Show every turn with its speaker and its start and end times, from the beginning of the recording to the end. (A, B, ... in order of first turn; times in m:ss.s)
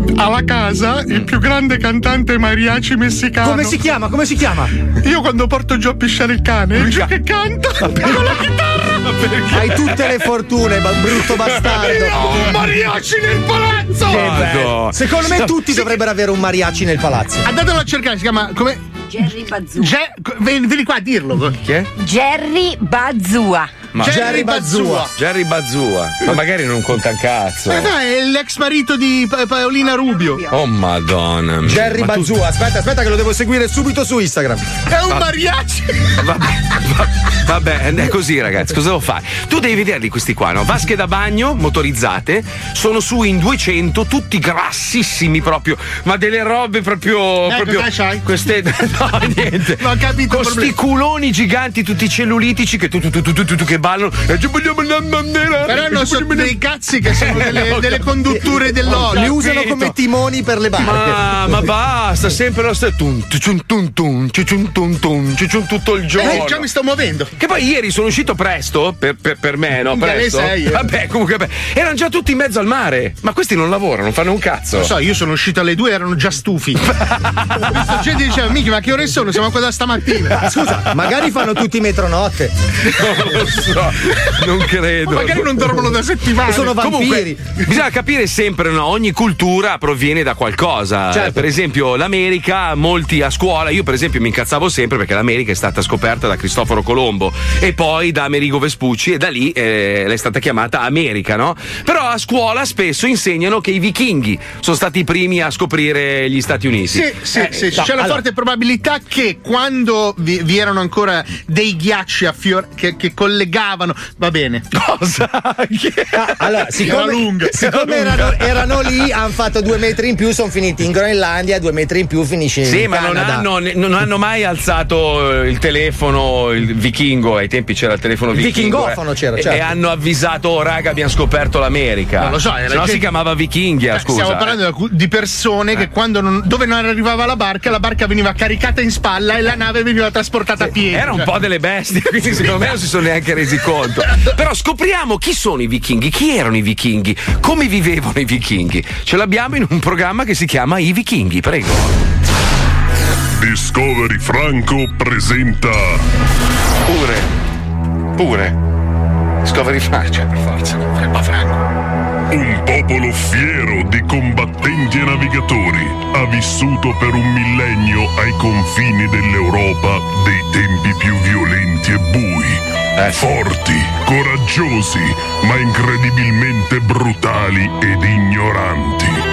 0:00.2-0:03.8 A
0:03.4-0:04.7 B
0:05.0-0:08.9 A
0:06.8-0:07.1 C
0:07.9-0:08.4 C
0:09.0-0:10.0 C
0:09.5-0:12.3 B
0:11.7-0:14.6 A
0:14.0-0:15.8 C
0:14.9-0:17.5 B
0:17.4-0:18.8 A
0:19.1-0:19.9 D
0:19.8-0:21.6 A
0:21.6-0:21.9 C
0:22.0-0:23.7 D
0:23.9-0:24.4 C
0:24.0-0:25.1 A
0:24.0-0:25.1 B
0:25.1-0:27.9 C
0:27.7-0:30.4 A
0:30.2-0:30.5 D
0:30.5-0:32.3 C
0:31.6-0:34.7 B
0:34.9-0:36.1 A
0:36.2-0:56.4 C
0:47.5-0:48.2 A
0:49.8-0:50.7 A
0:55.6-0:59.4 A
0:57.1-0:58.1 C
0:58.3-1:01.2 B
0:58.9-1:00.0 C
1:00.8-1:06.7 C
1:06.2-1:07.3 A
1:07.4-1:14.9 C
1:09.9-1:10.9 A
1:14.8-1:16.8 A
1:16.9-1:17.8 C
1:17.7-1:20.4 A
1:20.4-1:22.5 B
1:22.8-1:25.6 C
1:25.0-1:26.8 A
1:26.4-1:27.5 B
1:26.7-1:48.1 C
1:31.1-1:31.5 B
1:46.9-1:54.6 A
1:54.7-1:57.0 C
1:56.1-2:03.5 B
1:56.8-1:57.5 A
1:57.5-1:58.9 C
2:02.6-2:14.6 C
2:08.3-2:09.6 B
2:12.2-2:13.1 A
2:13.9-2:21.3 A
2:20.6-2:32.0 C
2:33.4-2:36.0 E
2:36.9-2:37.3 C
2:38.2-2:38.5 C
2:39.5-2:41.1 C
2:40.9-2:41.5 A
2:42.3-2:52.6 E
2:53.0-2:53.2 C
2:53.2-2:59.2 E